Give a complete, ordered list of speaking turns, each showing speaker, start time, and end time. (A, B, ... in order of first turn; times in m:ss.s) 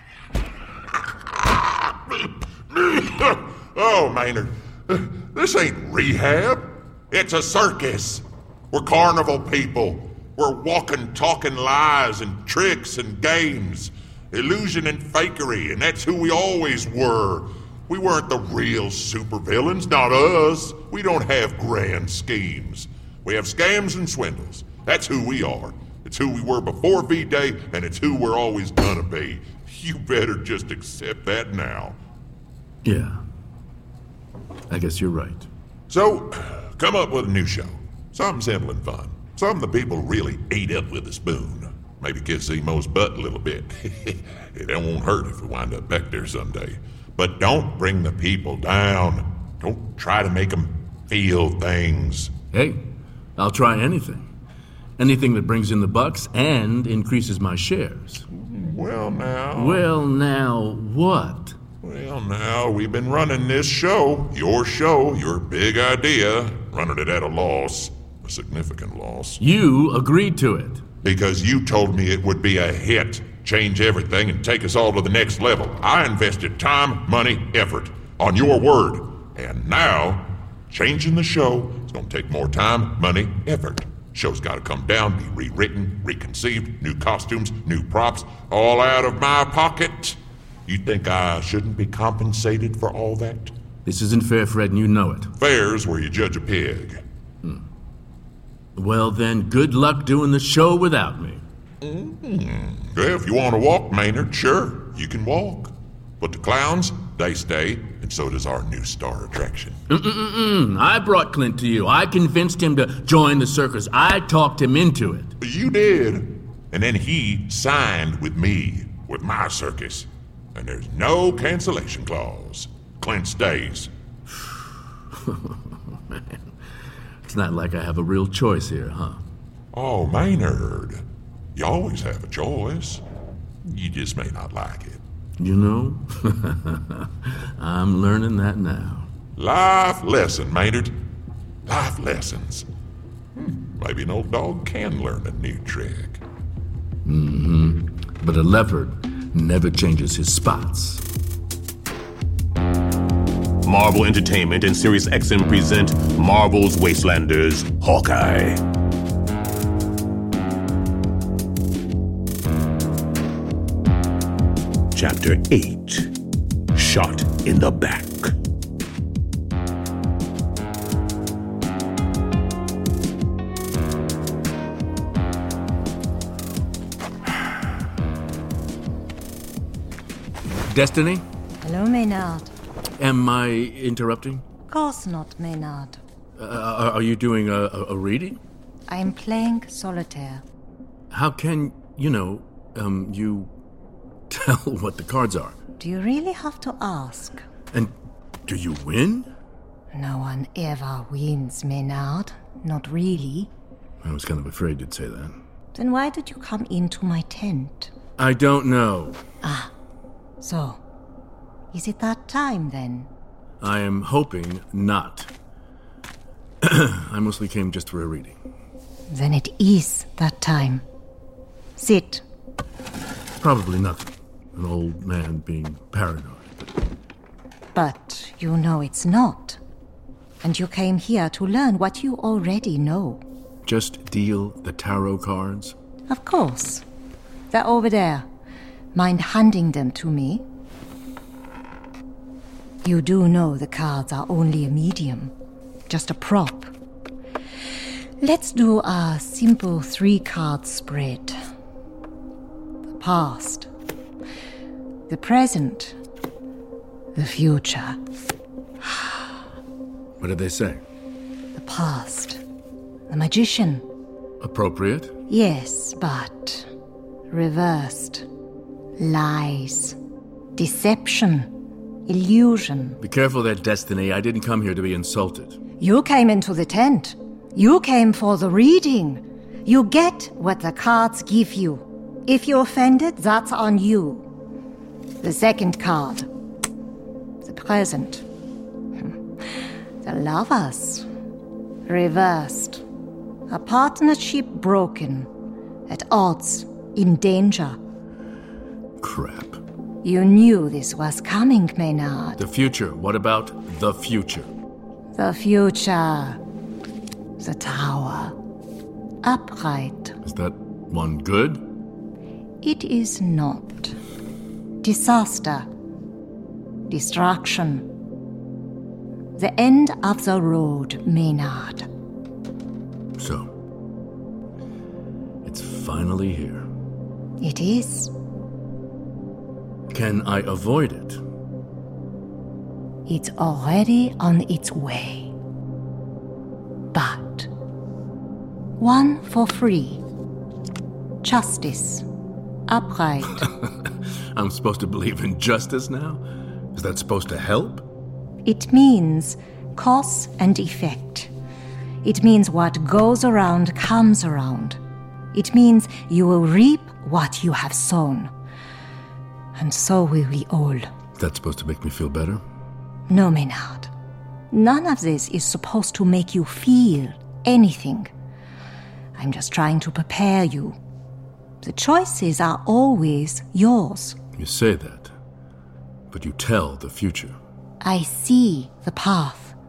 0:01.4-0:32.0 A
0:32.8-0:33.2 B
0:34.7-0:35.5 B
0:35.9-0:52.3 A
0:52.5-0:52.8 B
0:53.4-0:54.3 B
0:55.0-0:58.2 B
0:58.3-0:59.8 A
0:59.6-1:01.6 B
1:01.8-1:09.4 A
1:09.4-1:10.8 B
1:11.0-1:33.5 A
1:33.9-1:35.3 B
1:35.4-1:37.0 A
1:38.8-1:41.4 B
1:41.8-1:49.8 A
1:49.9-1:55.3 B
1:55.4-2:03.9 A
2:05.1-2:06.6 B
2:07.2-2:09.2 B
2:09.7-2:11.0 A
2:11.6-2:13.0 A
2:13.6-2:15.0 A
2:15.4-2:19.1 B
2:19.4-2:20.9 A
2:21.7-2:22.7 A
2:23.4-2:26.2 A
2:27.0-2:31.0 B
2:33.6-2:38.6 C
2:44.9-2:46.1 C
2:46.7-2:48.3 C
3:00.7-3:01.2 B
3:01.6-3:02.5 D
3:03.0-3:04.4 B
3:04.7-3:06.0 D
3:06.4-3:08.4 B
3:08.9-3:10.4 D
3:11.1-3:13.5 B
3:14.3-3:15.6 B
3:15.8-3:17.4 D
3:18.5-3:19.3 B
3:19.9-3:23.5 D
3:24.0-3:25.4 B
3:25.7-3:27.9 D
3:28.2-3:29.2 B
3:29.4-3:29.7 D
3:30.4-3:30.8 D
3:31.7-3:33.1 D
3:33.6-3:35.3 B
3:36.6-3:38.4 B
3:39.1-3:40.8 D
3:41.8-3:42.2 D
3:43.4-3:46.5 B
3:47.7-3:49.6 D
3:50.4-3:53.2 D
3:53.7-3:55.8 B
3:56.1-3:56.8 D
3:57.5-3:58.3 D
3:58.9-4:00.4 D
4:02.8-4:05.3 D
4:05.9-4:06.7 D
4:08.2-4:11.4 D
4:12.9-4:13.7 D
4:15.1-4:16.0 D
4:17.2-4:18.0 D
4:18.8-4:19.3 D
4:20.2-4:20.8 B
4:21.5-4:22.4 D
4:23.1-4:23.8 D
4:24.4-4:25.1 B
4:25.3-4:26.7 D
4:27.3-4:28.3 D
4:29.0-4:30.0 D
4:30.6-4:31.5 D
4:32.1-4:33.0 D
4:33.0-4:35.6 B
4:35.8-4:44.3 D
4:45.2-4:46.3 D
4:47.4-4:48.2 D
4:50.0-4:51.1 D
4:51.9-4:52.8 D
4:53.5-4:55.3 D
4:55.9-4:57.8 D
4:59.0-4:59.6 B
5:00.0-5:02.4 D
5:02.4-5:04.5 B
5:05.1-5:06.4 D
5:07.4-5:08.4 D
5:09.2-5:10.2 D
5:10.2-5:11.6 B
5:12.6-5:14.0 D
5:14.8-5:15.7 D
5:16.9-5:17.9 D
5:19.4-5:21.9 D
5:23.2-5:23.5 B
5:25.4-5:26.6 B
5:27.4-5:28.1 D
5:29.9-5:31.2 B
5:33.1-5:35.3 D
5:36.9-5:37.5 D
5:38.8-5:40.0 D
5:41.2-5:42.1 D
5:42.7-5:43.4 D
5:43.4-5:46.2 B
5:46.7-5:47.8 B
5:48.4-5:51.3 D
5:52.0-5:54.8 D
5:55.3-5:58.3 D
5:59.6-6:00.9 D
6:01.2-6:02.4 B
6:03.1-6:03.9 D
6:04.5-6:08.1 D
6:09.2-6:10.8 D
6:11.6-6:14.2 D
6:14.4-6:15.1 B
6:16.1-6:17.4 B
6:17.8-6:19.6 D